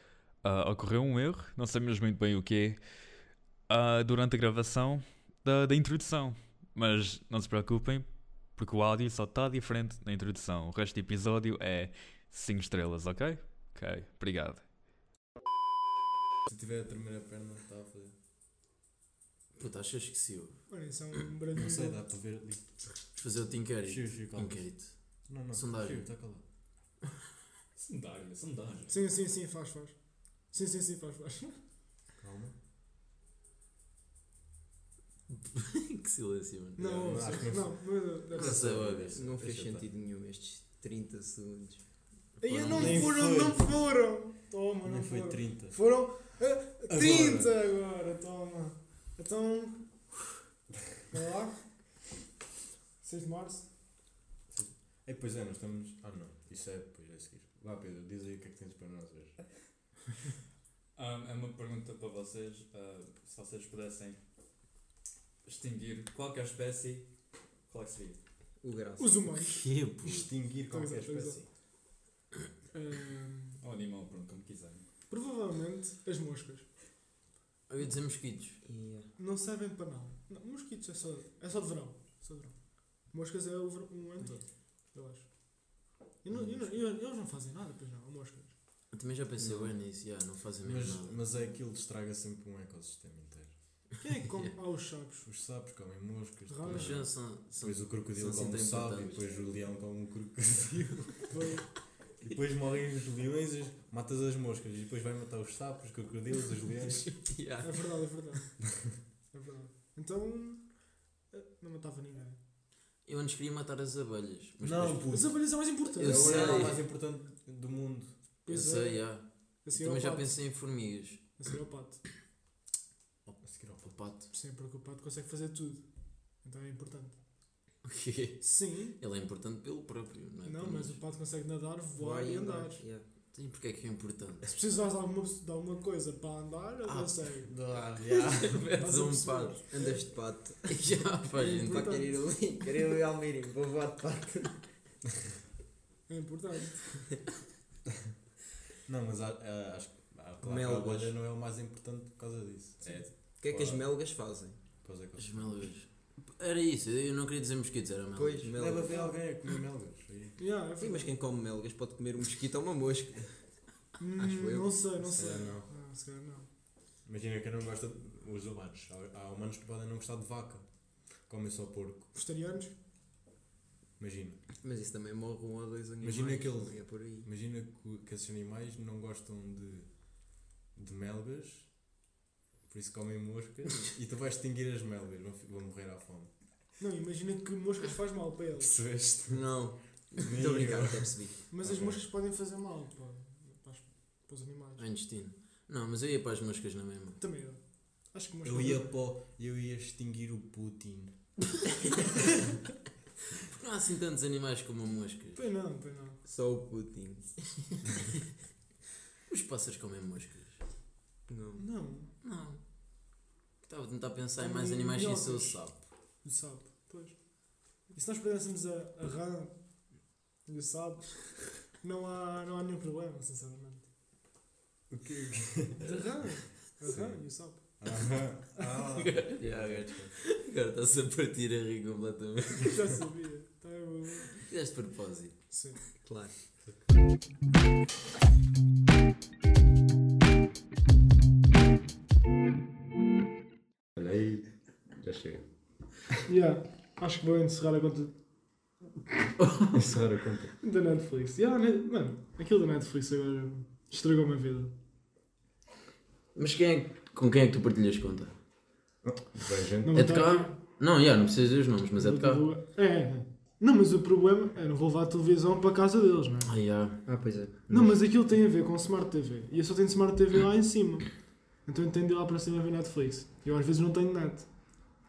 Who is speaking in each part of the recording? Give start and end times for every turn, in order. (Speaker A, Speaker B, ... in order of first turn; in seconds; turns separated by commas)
Speaker A: 0.4-2.8, Speaker A: 3.7-14.7, Speaker B: 16.5-18.1, Speaker C: 19.6-20.6, Speaker D: 20.7-22.0, Speaker B: 21.5-22.8, Speaker C: 23.1-24.9, Speaker B: 23.8-24.7, Speaker B: 25.3-26.4, Speaker C: 25.5-26.1, Speaker A: 27.8-28.9, Speaker D: 28.9-29.9, Speaker D: 30.5-31.6, Speaker B: 32.2-32.5, Speaker C: 35.3-37.4, Speaker D: 36.8-38.6, Speaker B: 37.0-39.9, Speaker C: 38.4-39.2, Speaker E: 38.5-41.8, Speaker D: 42.4-49.9, Speaker B: 42.5-43.6, Speaker C: 42.5-43.0, Speaker B: 44.8-45.8, Speaker B: 46.9-47.5, Speaker D: 51.1-51.7, Speaker D: 53.0-53.7, Speaker B: 54.5-59.4, Speaker A: 61.0-64.2, Speaker A: 65.5-67.1, Speaker A: 67.7-68.2, Speaker E: 68.6-69.1, Speaker D: 69.0-69.7, Speaker C: 69.3-70.3, Speaker B: 70.0-71.5, Speaker D: 70.7-71.4, Speaker D: 72.7-73.6, Speaker A: 73.6-74.9, Speaker D: 75.1-76.7, Speaker C: 77.7-78.6, Speaker E: 78.7-79.1, Speaker D: 79.2-85.3, Speaker D: 86.2-88.5, Speaker C: 88.9-91.2, Speaker E: 89.4-89.7, Speaker B: 90.6-93.6, Speaker D: 94.0-95.3, Speaker B: 95.3-97.1, Speaker D: 96.5-97.0, Speaker C: 96.7-99.2, Speaker B: 97.6-101.3, Speaker D: 101.3-101.7, Speaker B: 102.2-107.1, Speaker D: 107.6-108.5, Speaker D: 109.3-110.7, Speaker D: 111.3-112.4, Speaker C: 113.1-115.1, Speaker B: 114.6-115.4, Speaker D: 115.1-116.4, Speaker E: 116.0-116.8, Speaker B: 116.0-118.1, Speaker C: 116.0-116.8, Speaker D: 118.5-119.0, Speaker C: 118.5-121.3, Speaker D: 119.7-120.3, Speaker D: 121.4-122.0, Speaker B: 123.4-124.0, Speaker C: 123.9-124.3, Speaker D: 124.3-125.8, Speaker D: 126.4-127.2, Speaker C: 127.8-128.4, Speaker D: 128.4-129.0, Speaker C: 129.0-131.0, Speaker D: 130.4-132.8, Speaker E: 132.0-133.0, Speaker C: 133.3-134.5, Speaker D: 134.4-137.5, Speaker B: 137.1-138.6, Speaker E: 138.1-139.0, Speaker C: 138.6-139.6, Speaker D: 138.8-140.1, Speaker E: 139.7-140.8, Speaker C: 140.7-141.9, Speaker D: 141.3-142.2, Speaker E: 141.4-144.6, Speaker D: 146.1-147.1, Speaker B: 148.9-153.9, Speaker E: 150.4-151.1, Speaker E: 153.4-154.6, Speaker B: 154.8-155.7, Speaker C: 155.2-158.5, Speaker E: 158.2-159.1, Speaker B: 158.6-160.4, Speaker D: 160.4-161.1, Speaker E: 160.8-163.3, Speaker D: 164.0-166.5, Speaker E: 164.2-164.7, Speaker B: 165.0-165.7, Speaker B: 167.1-170.7, Speaker B: 171.3-172.1, Speaker D: 172.1-172.7, Speaker B: 174.0-174.4, Speaker E: 174.6-177.3, Speaker B: 176.0-179.9, Speaker B: 180.7-181.7, Speaker B: 182.7-186.3, Speaker D: 186.8-188.7, Speaker B: 188.6-189.4, Speaker C: 189.3-189.7, Speaker E: 189.5-191.4, Speaker B: 190.2-192.0, Speaker D: 191.5-194.9, Speaker C: 194.8-197.2, Speaker D: 197.2-197.6, Speaker D: 198.1-198.9, Speaker B: 198.4-201.1, Speaker C: 203.5-205.4, Speaker D: 205.3-206.2, Speaker E: 206.2-207.5, Speaker C: 209.3-210.6, Speaker E: 211.3-211.6, Speaker D: 211.6-212.1, Speaker C: 212.2-212.6, Speaker C: 213.7-215.8, Speaker D: 214.4-217.2, Speaker D: 217.9-219.6, Speaker D: 220.5-223.8, Speaker B: 224.9-226.0, Speaker D: 225.8-228.1, Speaker B: 226.8-227.2, Speaker B: 227.8-230.2, Speaker E: 229.0-229.4, Speaker C: 229.4-232.8, Speaker D: 232.6-234.4, Speaker C: 234.3-235.4, Speaker D: 235.5-235.8, Speaker E: 236.0-236.3, Speaker B: 243.9-245.5, Speaker D: 246.3-248.1, Speaker C: 249.4-249.9, Speaker B: 249.7-250.5, Speaker D: 250.6-254.7, Speaker C: 256.4-258.4, Speaker B: 259.0-260.1, Speaker D: 259.8-260.6, Speaker C: 259.9-262.4, Speaker D: 262.0-266.5, Speaker C: 266.4-267.0, Speaker E: 267.1-267.6, Speaker C: 267.7-268.0, Speaker D: 267.7-271.1, Speaker D: 271.7-274.5